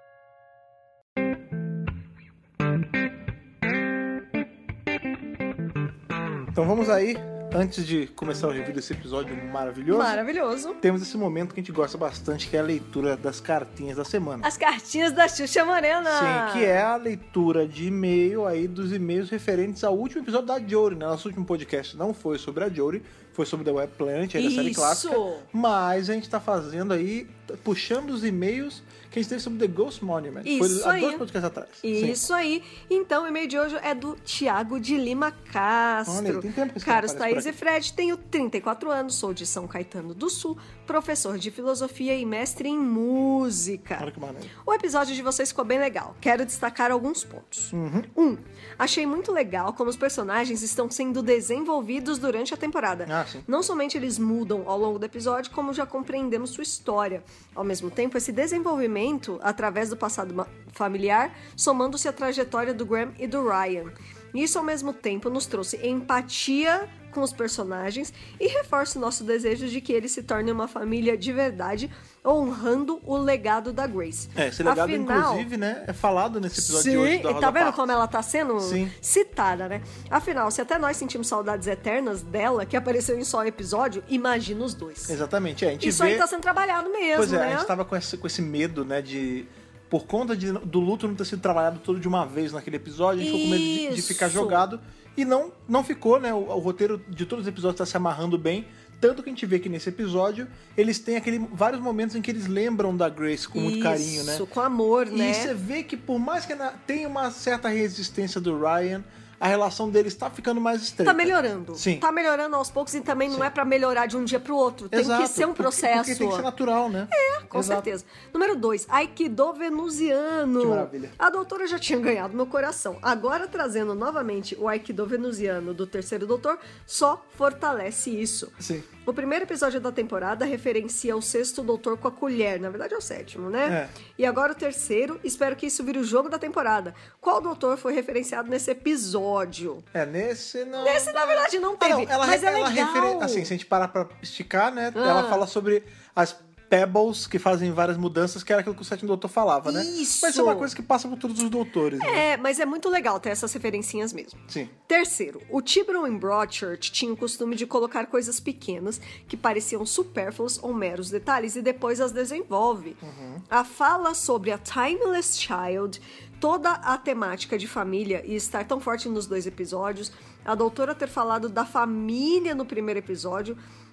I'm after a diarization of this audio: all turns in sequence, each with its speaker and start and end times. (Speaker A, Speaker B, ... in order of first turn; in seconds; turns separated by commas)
Speaker A: 6.5-10.2, Speaker B: 9.9-10.8, Speaker A: 10.8-14.5, Speaker B: 14.4-16.8, Speaker A: 16.0-32.2, Speaker B: 24.3-25.4, Speaker B: 30.4-31.2, Speaker B: 31.8-44.0, Speaker A: 36.0-37.5, Speaker A: 44.0-44.5, Speaker B: 44.6-75.5, Speaker A: 47.7-48.1, Speaker A: 53.1-53.5, Speaker A: 74.3-77.9, Speaker B: 76.5-85.2, Speaker A: 78.6-78.9, Speaker A: 85.1-86.3, Speaker B: 85.8-87.7, Speaker A: 87.1-104.4, Speaker B: 93.2-94.6, Speaker B: 103.5-105.5, Speaker A: 105.1-112.0, Speaker B: 111.0-116.5, Speaker A: 114.9-117.9, Speaker B: 117.1-139.8, Speaker A: 120.6-121.1, Speaker A: 128.6-128.9, Speaker A: 133.6-133.9, Speaker A: 139.9-152.2, Speaker B: 140.8-143.5, Speaker B: 144.9-145.4, Speaker B: 149.6-150.7, Speaker B: 152.0-173.6, Speaker A: 154.5-154.7, Speaker A: 163.0-163.4